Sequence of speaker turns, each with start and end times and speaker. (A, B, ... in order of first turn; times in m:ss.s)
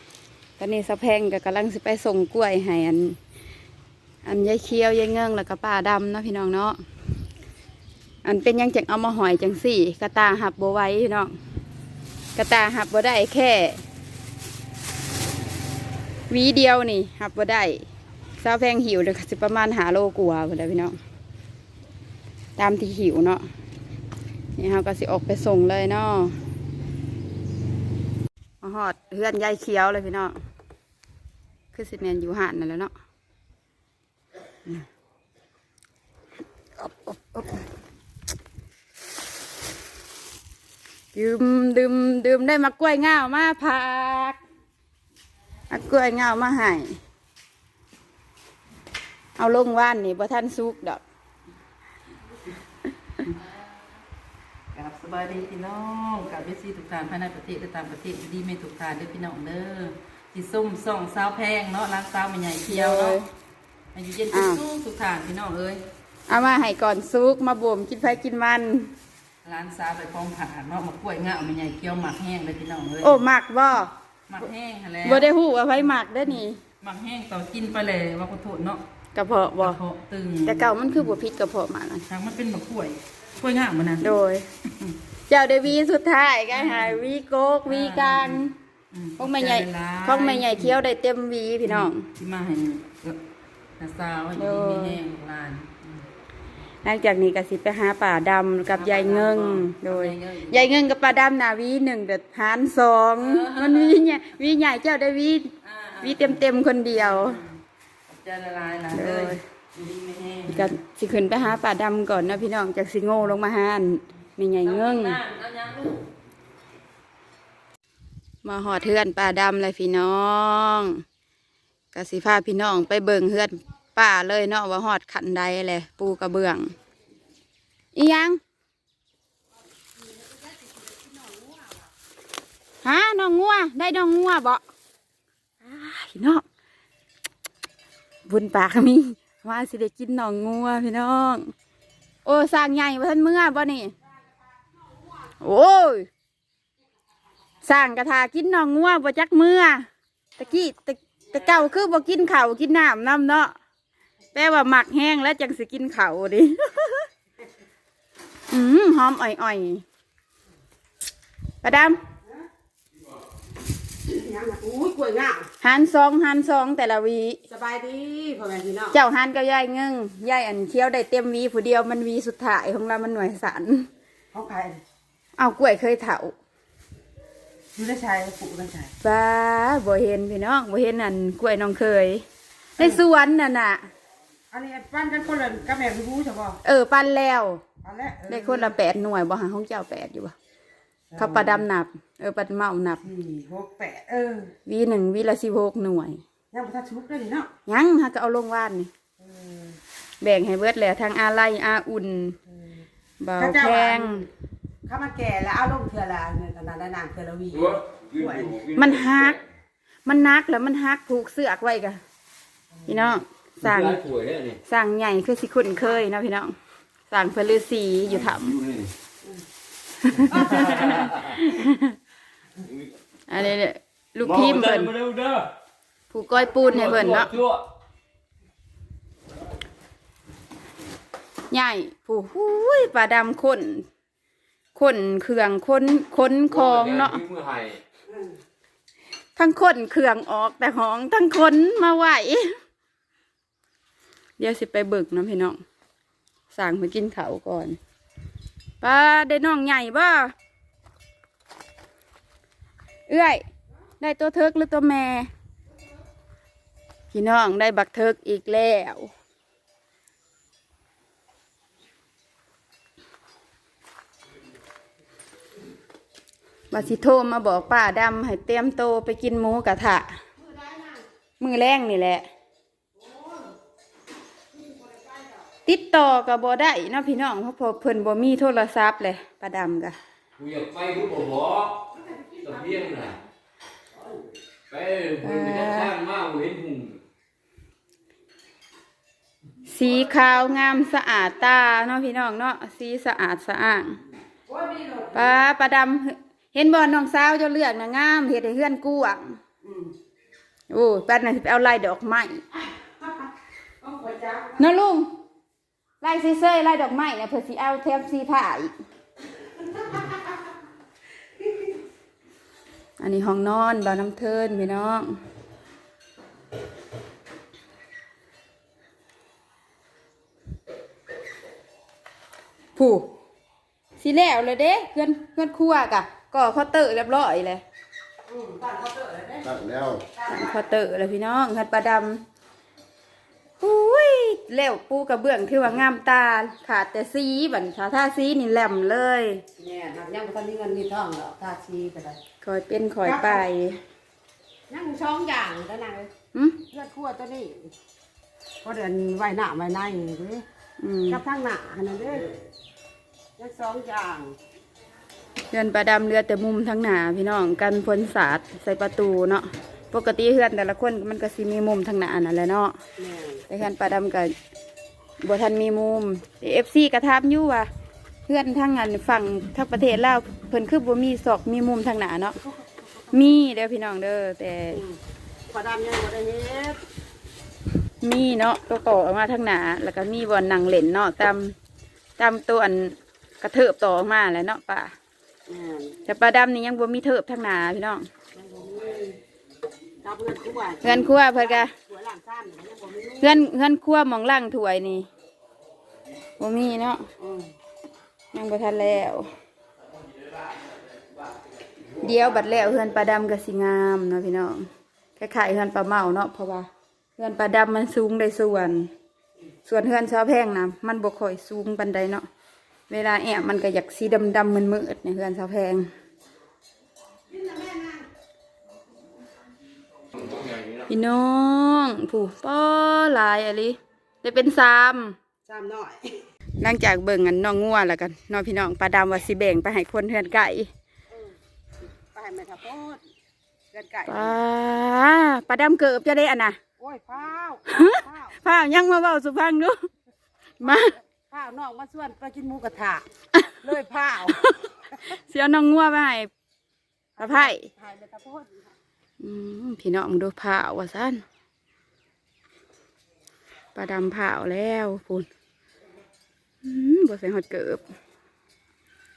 0:00.6-0:03.2 A
0:04.2-0:06.8 A
0:08.2-0:11.4 A
0:12.4-0:13.8 A
0:16.3-0:17.8 A
0:18.4-0:21.0 A
0:22.6-0:23.5 A
0:24.6-0:26.4 A
0:28.6-0:30.4 A
0:31.7-0:32.9 A
0:36.8-0:37.6 A
0:41.1-0:44.4 A
0:45.7-0:47.0 A
0:49.4-0:51.0 A
0:54.7-1:03.2 B
1:02.7-1:03.3 A
1:03.9-1:05.9 B
1:04.3-1:04.6 A
1:06.3-1:08.9 A
1:09.4-1:13.2 B
1:13.0-1:13.9 A
1:14.3-1:15.3 B
1:15.0-1:16.6 A
1:16.8-1:18.8 B
1:19.2-1:19.8 A
1:19.6-1:20.8 B
1:20.4-1:22.1 A
1:22.1-1:24.1 B
1:24.0-1:24.5 A
1:24.7-1:25.0 B
1:25.3-1:28.6 A
1:26.5-1:27.0 B
1:27.7-1:30.8 B
1:29.2-1:32.1 A
1:31.7-1:33.2 B
1:33.8-1:36.0 B
1:34.4-1:35.0 A
1:36.8-1:47.4 A
1:38.7-1:40.7 B
1:43.2-1:44.2 B
1:45.6-1:46.4 B
1:47.0-1:47.5 B
1:48.1-1:50.7 B
1:48.9-1:49.4 A
1:50.5-1:55.2 A
1:54.6-1:56.0 B
1:58.4-2:01.0 A
2:01.9-2:06.7 A
2:07.9-2:08.4 A
2:12.8-2:14.6 A
2:15.6-2:16.4 A
2:18.3-2:21.5 A
2:22.2-2:23.9 A
2:25.4-2:26.1 A
2:27.6-2:33.6 A
2:34.3-2:37.1 A
2:38.5-2:39.8 A
2:41.6-2:42.0 A
2:44.0-2:45.5 C
2:45.6-2:47.4 A
2:47.5-2:49.0 C
2:48.9-2:53.9 A
2:54.3-2:54.8 C
2:55.4-2:56.4 A
2:57.8-2:58.9 C
2:59.0-3:02.2 A
3:02.8-3:03.9 A
3:04.5-3:06.6 C
3:06.6-3:07.6 A
3:07.8-3:08.8 C
3:08.3-3:10.4 A
3:11.1-3:11.6 C
3:11.2-3:13.0 A
3:13.0-3:14.5 C
3:14.7-3:16.2 A
3:16.5-3:17.5 C
3:17.7-3:18.9 A
3:19.2-3:19.8 C
3:20.2-3:22.4 A
3:23.2-3:24.3 A
3:23.4-3:24.3 C
3:24.9-3:28.6 C
3:27.5-3:29.2 D
3:28.7-3:29.4 A
3:30.1-3:32.0 A
3:32.9-3:34.0 A
3:33.6-3:34.6 D
3:34.7-3:36.6 A
3:37.1-3:38.6 A
3:38.6-3:38.9 D
3:40.1-3:42.0 A
3:40.7-3:41.2 D
3:43.3-3:44.9 A
3:44.2-3:45.5 D
3:46.1-3:47.3 A
3:46.6-3:47.6 D
3:51.5-3:53.9 A
3:54.8-3:57.2 A
3:56.5-3:57.8 D
3:59.4-4:02.6 A
4:04.4-4:05.6 A
4:06.5-4:07.8 A
4:08.8-4:10.3 A
4:13.1-4:13.4 A
4:14.0-4:15.3 A
4:17.1-4:19.1 A
4:26.7-4:30.2 A
4:30.4-4:31.0 C
4:31.4-4:32.3 A
4:35.7-4:40.0 A
4:40.4-4:43.2 D
4:44.7-4:47.0 D
4:45.2-4:46.0 A
4:49.7-4:54.0 A
4:54.5-4:55.3 C
4:55.1-4:59.4 A
5:00.7-5:02.4 A
5:02.8-5:03.3 C
5:03.8-5:04.6 C
5:04.6-5:05.1 A
5:06.0-5:08.7 A
5:13.0-5:15.2 A
5:22.8-5:23.1 A
5:24.0-5:27.6 A
5:28.3-5:30.7 C
5:30.3-5:32.2 A
5:33.6-5:39.4 A
5:39.6-5:42.2 C
5:42.4-5:43.8 A
5:43.0-5:43.4 C
5:44.7-5:46.1 C
5:46.3-5:46.6 A
5:46.7-5:47.7 C
5:48.6-5:50.4 C
5:50.8-5:51.2 A
5:51.1-5:52.4 C
5:53.4-5:54.4 C
5:55.5-6:02.8 A
6:03.0-6:03.4 C
6:03.5-6:04.3 A
6:05.2-6:07.7 A
6:08.3-6:12.4 A
6:13.1-6:14.8 A
6:14.7-6:15.0 C
6:15.5-6:16.8 C
6:18.0-6:21.6 A
6:22.2-6:24.9 A
6:25.5-6:26.0 C
6:26.1-6:28.1 A
6:28.4-6:29.2 C
6:30.0-6:33.4 C
6:30.8-6:31.7 A
6:33.2-6:35.1 A
6:36.4-6:37.1 A
6:37.2-6:37.5 C
6:38.3-6:39.3 A
6:42.0-6:48.9 A
6:49.7-6:52.3 A
6:52.9-6:55.9 A
6:57.3-6:58.0 C
7:00.9-7:05.2 A
7:05.5-7:06.2 C
7:06.6-7:10.7 A
7:12.2-7:13.0 C
7:13.7-7:14.4 C
7:14.1-7:16.6 A
7:16.8-7:18.4 C
7:17.7-7:19.8 A
7:20.6-7:21.0 A
7:20.6-7:23.0 C
7:23.3-7:23.6 A
7:23.6-7:24.5 C
7:24.9-7:26.3 A
7:27.2-7:28.7 C
7:27.2-7:27.7 A
7:29.2-7:31.2 A
7:33.8-7:35.3 A
7:36.6-7:37.8 A